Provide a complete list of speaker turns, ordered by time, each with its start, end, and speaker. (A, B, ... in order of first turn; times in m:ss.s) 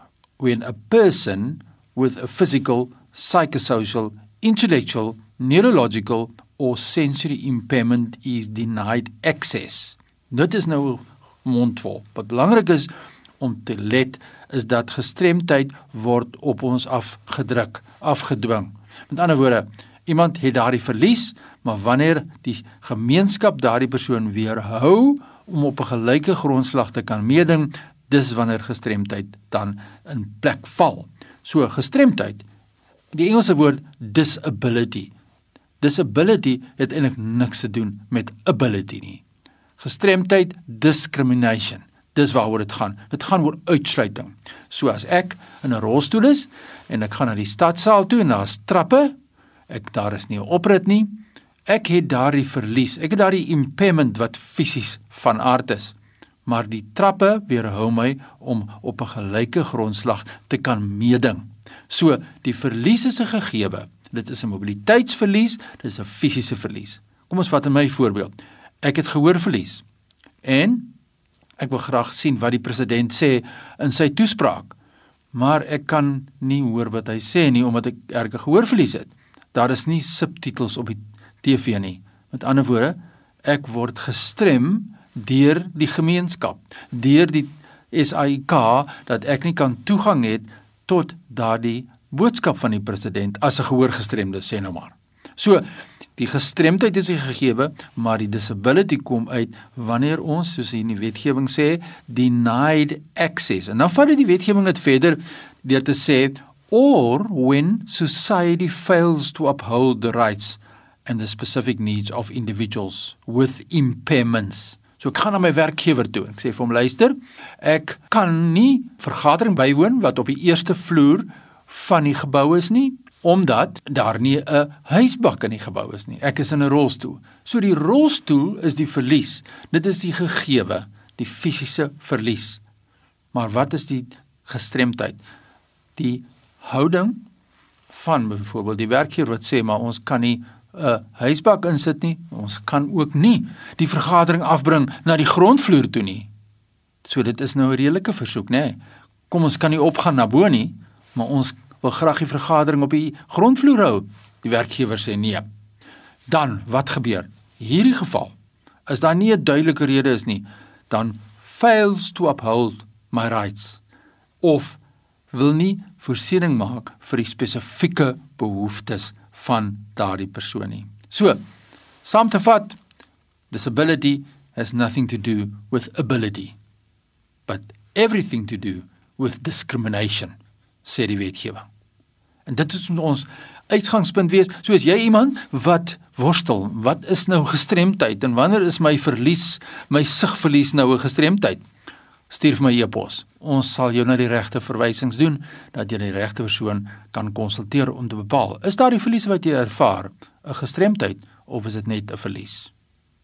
0:00.4-0:32.4 A
0:33.1-0:35.1 A
0:35.8-0:39.2 A
0:39.8-0:49.1 A
0:49.7-0:51.1 A
0:51.7-0:56.0 A
0:56.5-1:09.8 A
1:10.4-1:10.9 A
1:11.6-1:14.8 A
1:15.3-2:12.6 A
2:13.3-2:15.2 A
2:16.0-2:17.2 A
2:17.9-2:26.3 A
2:27.0-2:28.8 A
2:29.3-2:35.4 A
2:36.3-2:38.3 A
2:38.9-2:43.8 A
2:44.4-2:44.8 A
2:45.3-2:51.4 A
2:52.0-2:52.8 A
2:53.5-2:56.6 A
2:57.5-3:01.7 A
3:02.5-3:11.6 A
3:12.3-3:22.7 A